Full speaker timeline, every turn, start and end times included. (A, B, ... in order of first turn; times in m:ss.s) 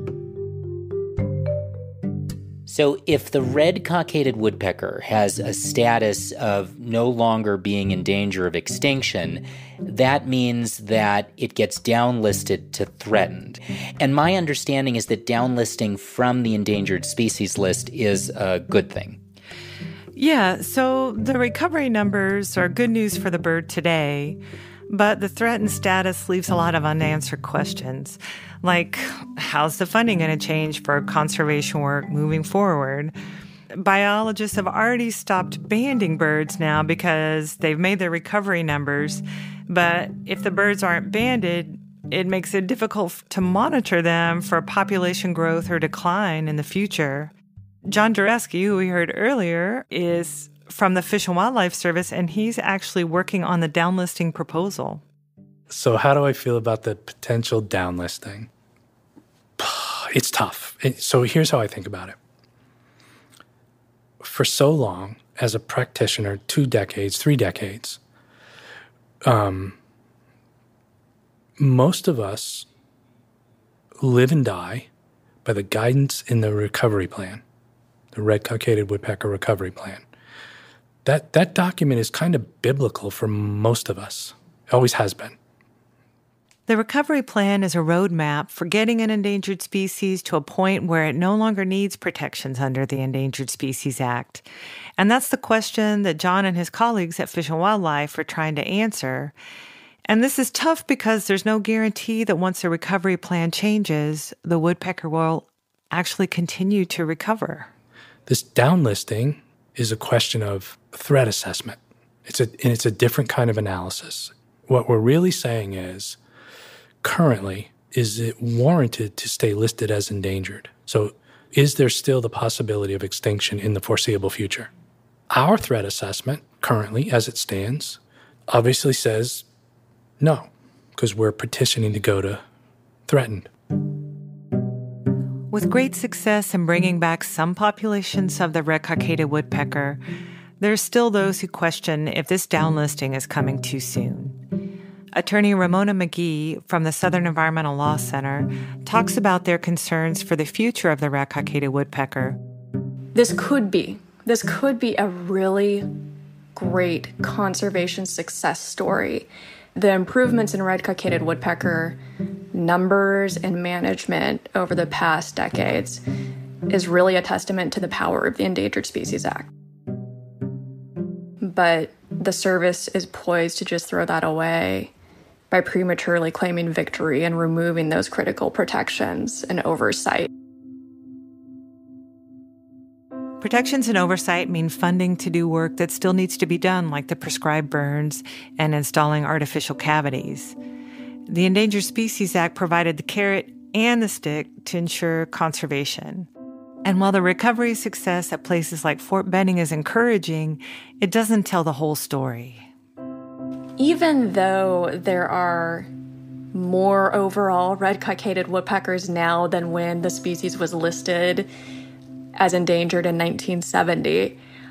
0:02.6-0:19.2 A
0:20.2-0:33.1 B
0:33.7-0:47.3 B
0:47.9-0:55.0 B
0:55.7-0:58.5 C
0:59.6-1:02.2 C
1:04.2-1:08.0 C
1:09.2-1:09.8 C
1:11.6-1:12.7 C
1:14.0-1:14.9 C
1:15.4-1:17.4 C
1:18.1-1:20.0 C
1:21.0-1:25.4 C
1:26.7-1:34.4 B
1:35.0-1:39.3 B
1:40.1-1:47.7 B
1:48.3-1:56.2 C
1:57.0-2:04.7 C
2:05.3-2:09.4 C
2:10.2-2:12.4 C
2:13.1-2:13.5 C
2:15.5-2:20.0 B
2:20.6-2:24.4 B
2:25.1-2:32.4 B
2:33.1-2:35.9 D
2:36.5-2:42.0 D
2:42.5-2:46.0 D
2:46.7-2:49.5 D
2:51.4-2:54.9 D
2:55.5-3:00.3 D
3:03.4-3:10.6 B
3:11.3-3:16.3 B
3:16.8-3:22.7 B
3:23.8-3:25.9 D
3:26.5-3:31.5 D
3:32.4-3:34.4 D